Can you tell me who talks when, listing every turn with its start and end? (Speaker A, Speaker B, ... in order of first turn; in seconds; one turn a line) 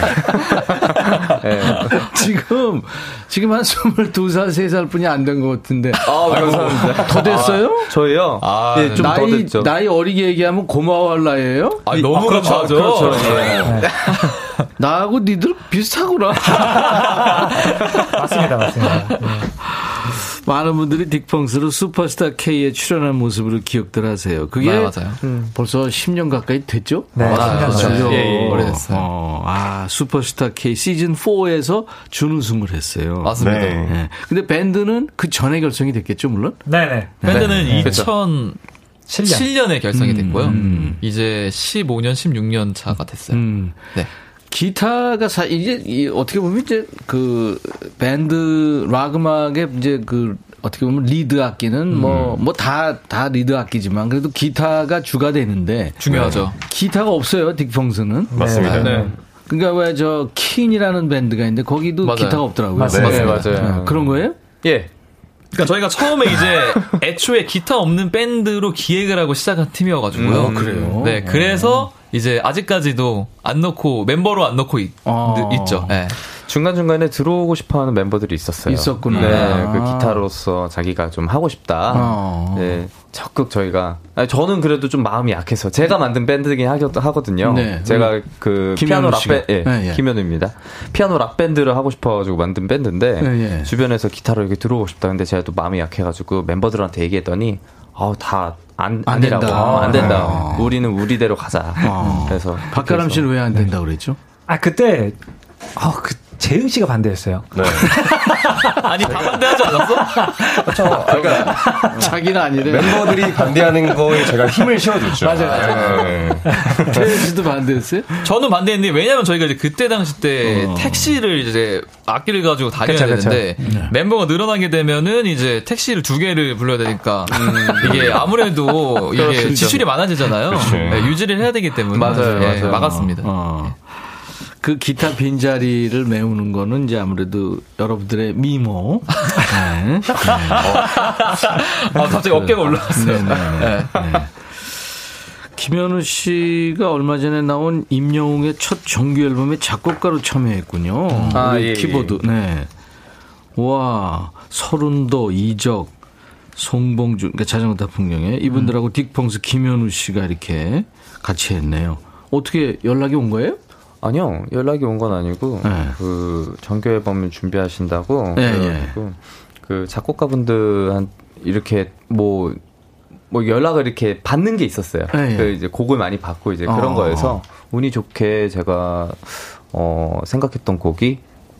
Speaker A: 1.3-7.9
Speaker B: 1.3-2.1
Speaker B: 6.0-9.7
Speaker C: 6.2-7.5
Speaker D: 8.4-9.2
Speaker A: 8.9-13.6
Speaker D: 11.8-14.6
Speaker B: 11.9-13.9
Speaker C: 12.9-13.8
Speaker E: 13.6-13.9
Speaker A: 14.8-17.4
Speaker E: 16.8-17.1
Speaker E: 18.1-19.5
Speaker A: 19.4-36.7
Speaker D: 24.6-25.2
Speaker B: 25.2-25.5
Speaker E: 27.1-28.2
Speaker D: 27.2-29.1
Speaker B: 27.3-28.8
Speaker D: 33.2-33.9
Speaker C: 33.4-34.0
Speaker E: 36.6-38.0
Speaker A: 37.2-37.9
Speaker D: 37.2-38.6
Speaker B: 37.3-38.1
Speaker E: 39.1-39.5
Speaker D: 39.2-44.1
Speaker A: 39.9-41.0
Speaker A: 43.3-44.0
Speaker A: 44.5-58.9
Speaker C: 52.0-52.4
Speaker D: 56.0-56.5
Speaker C: 56.1-56.4
Speaker E: 58.3-59.1
Speaker C: 58.3-59.1
Speaker B: 58.7-59.1
Speaker A: 59.5-64.4
Speaker D: 62.0-62.6
Speaker E: 62.7-63.5
Speaker C: 62.9-63.5
Speaker B: 62.9-64.9
Speaker D: 65.5-76.2
Speaker B: 70.1-71.0
Speaker A: 70.2-71.9
Speaker A: 75.0-76.0
Speaker B: 76.3-103.4
Speaker A: 78.7-80.2
Speaker C: 79.1-79.5
Speaker D: 79.2-79.6
Speaker A: 81.9-82.8
Speaker A: 87.4-90.0
Speaker A: 93.2-93.7
Speaker A: 99.0-100.7
Speaker C: 99.7-100.4
Speaker A: 101.8-104.2
Speaker E: 104.5-105.2
Speaker E: 105.8-108.8
Speaker C: 107.5-108.0
Speaker D: 108.8-110.2
Speaker E: 110.1-112.0
Speaker C: 110.7-112.0
Speaker A: 111.8-113.6
Speaker C: 112.6-117.3
Speaker E: 115.2-116.8
Speaker D: 115.4-116.0
Speaker A: 116.8-118.2
Speaker D: 118.2-133.3
Speaker A: 120.4-121.2
Speaker E: 122.8-123.7
Speaker A: 123.6-123.9
Speaker B: 127.3-129.9
Speaker A: 127.8-128.2
Speaker C: 127.8-128.2
Speaker A: 129.2-129.9
Speaker A: 130.4-131.2
Speaker C: 130.5-131.2
Speaker B: 131.9-132.9
Speaker A: 132.0-140.9
Speaker D: 140.2-144.2
Speaker C: 140.7-141.0
Speaker A: 141.9-144.8
Speaker A: 145.6-152.7
Speaker D: 151.1-151.4
Speaker B: 151.3-152.2
Speaker A: 153.6-155.9
Speaker A: 156.6-163.6
Speaker B: 164.0-172.6
Speaker A: 165.6-166.0
Speaker A: 168.3-169.0
Speaker B: 173.3-181.2
Speaker A: 175.1-175.6
Speaker A: 176.7-177.4